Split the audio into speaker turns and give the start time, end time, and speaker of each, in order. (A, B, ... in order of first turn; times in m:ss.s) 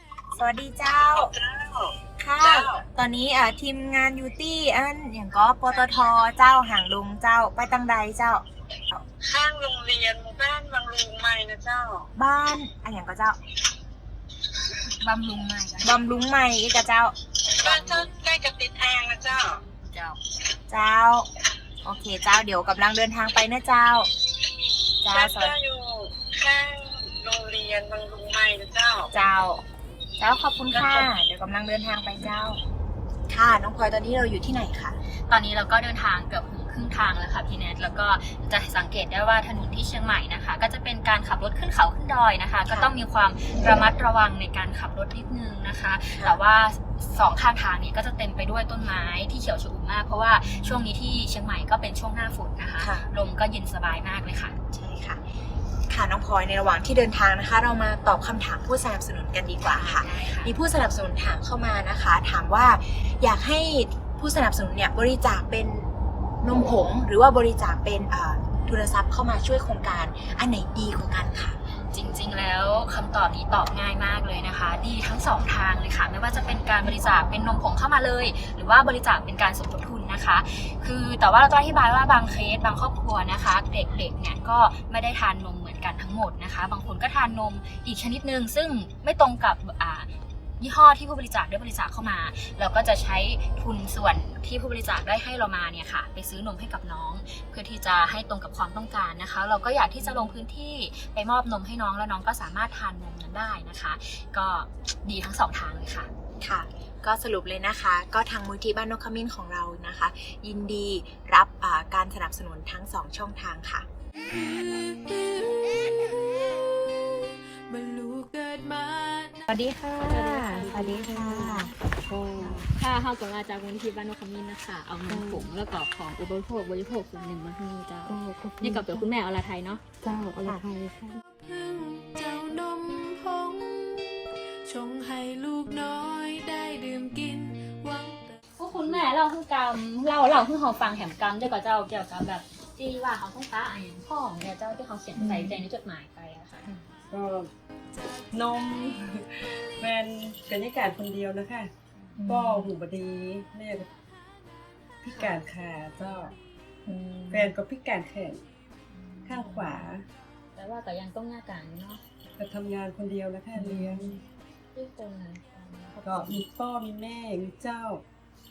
0:00.4-0:01.3 A
0:01.0-0:02.8 B
0:02.2-0:09.0 A
0:09.2-0:12.1 B
0:12.2-0:13.4 A
0:15.0-0:18.1 A
0:17.4-0:19.6 B
0:19.7-0:20.2 C
0:20.7-0:21.3 A
0:21.8-0:24.1 A
0:25.0-0:29.1 B
0:25.0-0:25.6 A
0:29.1-0:29.6 A
0:30.2-0:32.6 A
0:30.7-0:31.1 B
0:33.3-0:35.0 A
0:35.2-0:54.6 C
0:42.7-0:42.9 A
0:50.4-0:50.9 A
0:52.8-0:53.1 A
0:54.7-0:55.2 A
0:55.9-1:05.9 A
0:59.6-1:00.5 C
1:06.4-1:11.6 A
1:11.8-1:46.1 C
1:40.0-1:40.4 A
1:46.4-1:53.8 A
1:54.2-1:59.4 D
1:59.5-2:01.7 A
2:00.0-2:01.7 C
2:01.0-2:01.3 E
2:02.1-2:02.6 E
2:02.4-2:02.6 A
2:02.6-2:09.8 C
2:05.1-2:05.5 E
2:08.1-2:09.0 E
2:10.0-2:11.2 E
2:10.4-2:10.7 A
2:11.4-2:18.4 D
2:18.6-2:26.7 C
2:25.2-2:25.6 A
2:27.1-2:27.5 E
2:28.3-2:31.7 E
2:32.2-2:32.7 A
2:32.2-2:33.9 E
2:35.0-2:36.3 E
2:36.9-2:37.2 C
2:37.3-2:38.4 E
2:39.0-2:39.8 C
2:39.2-2:40.0 E
2:40.5-2:42.0 C
2:42.4-2:44.2 E
2:43.6-2:44.1 C
2:44.7-2:46.4 C
2:46.0-2:48.0 E